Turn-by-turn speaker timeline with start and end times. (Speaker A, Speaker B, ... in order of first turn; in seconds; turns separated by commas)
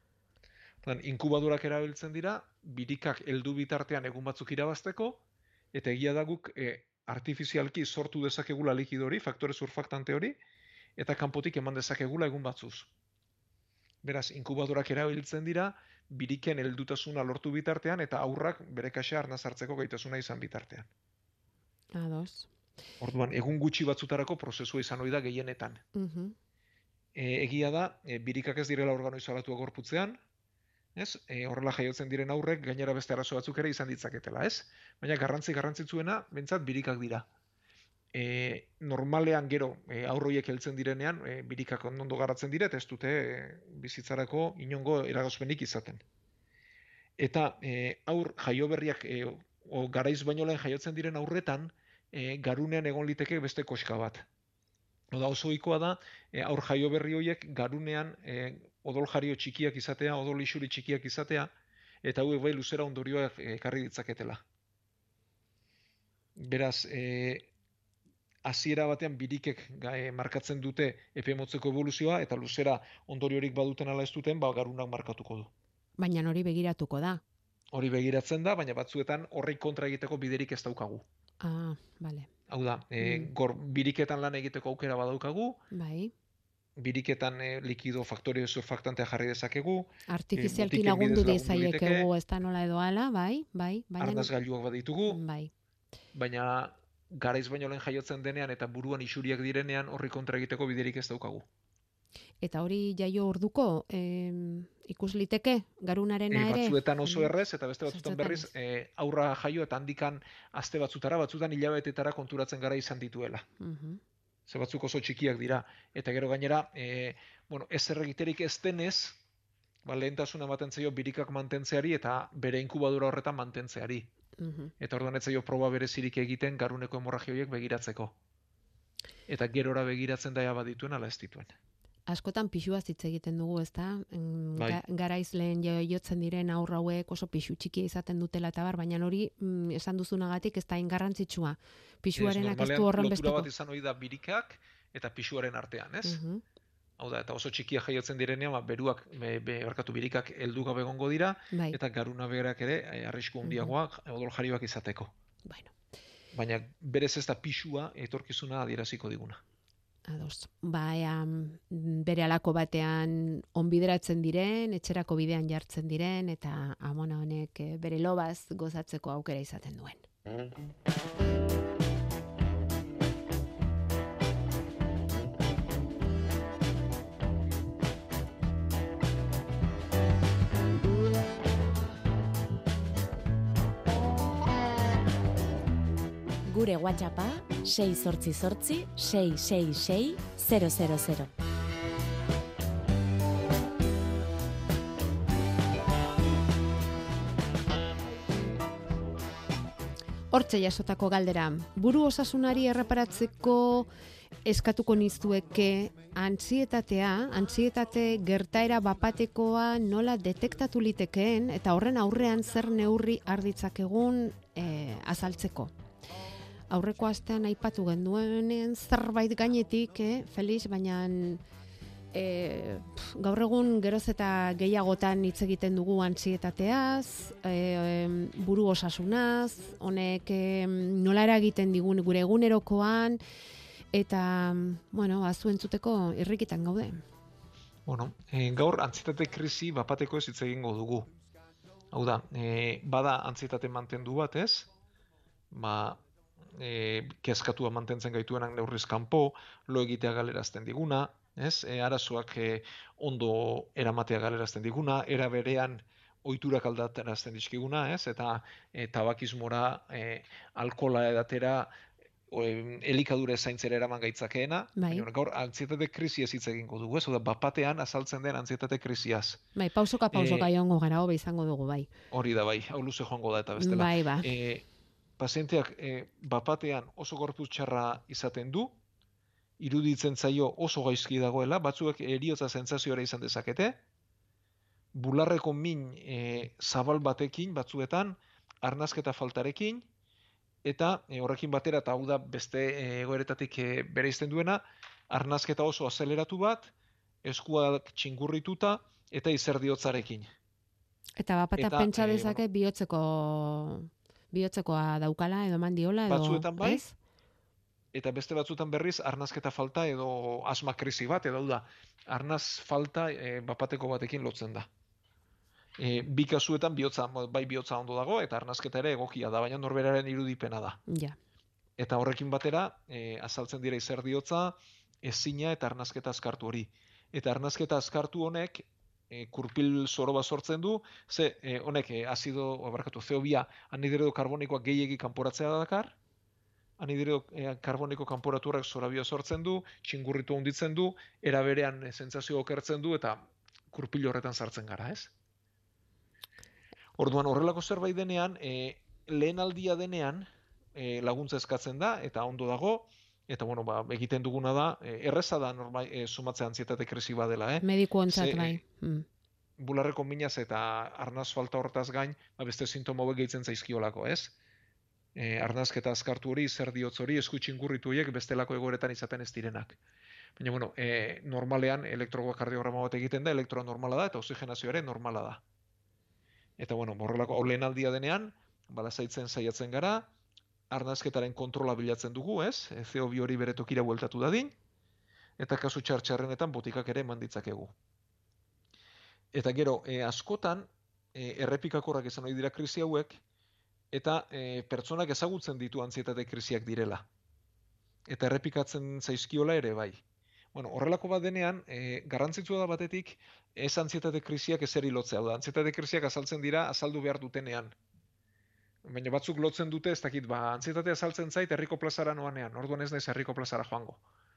Speaker A: 0.8-10.4, Speaker A: 11.0-12.9, Speaker A: 14.0-20.9, Speaker B: 21.9-22.5, Speaker A: 23.0-25.8, Speaker B: 25.9-26.4, Speaker A: 27.1-30.2, Speaker A: 30.9-37.3, Speaker A: 38.1-46.0, Speaker A: 47.2-54.2, Speaker A: 55.1-61.5, Speaker A: 62.0-64.4, Speaker A: 66.4-67.5, Speaker A: 68.4-75.5, Speaker B: 76.0-77.2, Speaker A: 77.7-81.0, Speaker B: 81.4-82.3, Speaker A: 82.5-85.6, Speaker B: 83.0-83.3, Speaker B: 85.7-86.1, Speaker A: 86.8-92.1, Speaker B: 90.1-94.3, Speaker A: 94.0-95.2, Speaker B: 95.1-95.5, Speaker A: 96.1-101.4, Speaker B: 102.4-107.3, Speaker A: 106.3-113.5, Speaker B: 107.9-108.5, Speaker B: 113.6-114.0, Speaker A: 114.5-119.2, Speaker A: 119.8-124.1, Speaker B: 124.4-124.7, Speaker A: 124.8-128.1, Speaker A: 129.3-131.6, Speaker B: 132.1-143.5, Speaker A: 134.6-134.8, Speaker A: 142.1-146.2, Speaker B: 146.0-146.4, Speaker A: 147.0-155.1, Speaker B: 151.5-151.8, Speaker B: 153.4-153.7, Speaker B: 155.4-155.7, Speaker A: 156.3-159.4, Speaker B: 160.1-170.1, Speaker C: 186.4-191.3, Speaker B: 200.3-203.9, Speaker B: 204.4-215.7, Speaker B: 216.7-221.4, Speaker B: 222.1-233.2, Speaker B: 233.9-237.0, Speaker A: 237.9-241.1, Speaker A: 241.9-244.7, Speaker A: 245.5-246.0, Speaker A: 246.5-261.7, Speaker A: 262.3-269.4, Speaker B: 264.8-265.1, Speaker B: 269.6-271.9, Speaker A: 270.1-270.5, Speaker A: 272.1-274.7, Speaker B: 273.6-274.3, Speaker A: 275.2-278.8, Speaker A: 279.6-283.8, Speaker A: 284.9-289.9, Speaker A: 290.6-296.7, Speaker A: 297.2-300.3, Speaker B: 301.2-306.9, Speaker A: 301.6-302.4, Speaker A: 306.1-306.8, Speaker A: 307.9-314.7, Speaker A: 315.8-320.8, Speaker B: 320.9-321.2, Speaker A: 321.8-336.0, Speaker A: 336.8-345.1, Speaker A: 347.0-358.6, Speaker B: 357.6-359.1, Speaker A: 359.6-364.4, Speaker A: 365.1-369.8, Speaker A: 370.4-375.4, Speaker A: 376.6-380.1, Speaker A: 380.7-384.6, Speaker A: 385.4-387.7, Speaker A: 389.3-393.2, Speaker A: 393.9-397.1, Speaker A: 398.1-400.0, Speaker A: 400.5-407.7, Speaker A: 408.9-414.0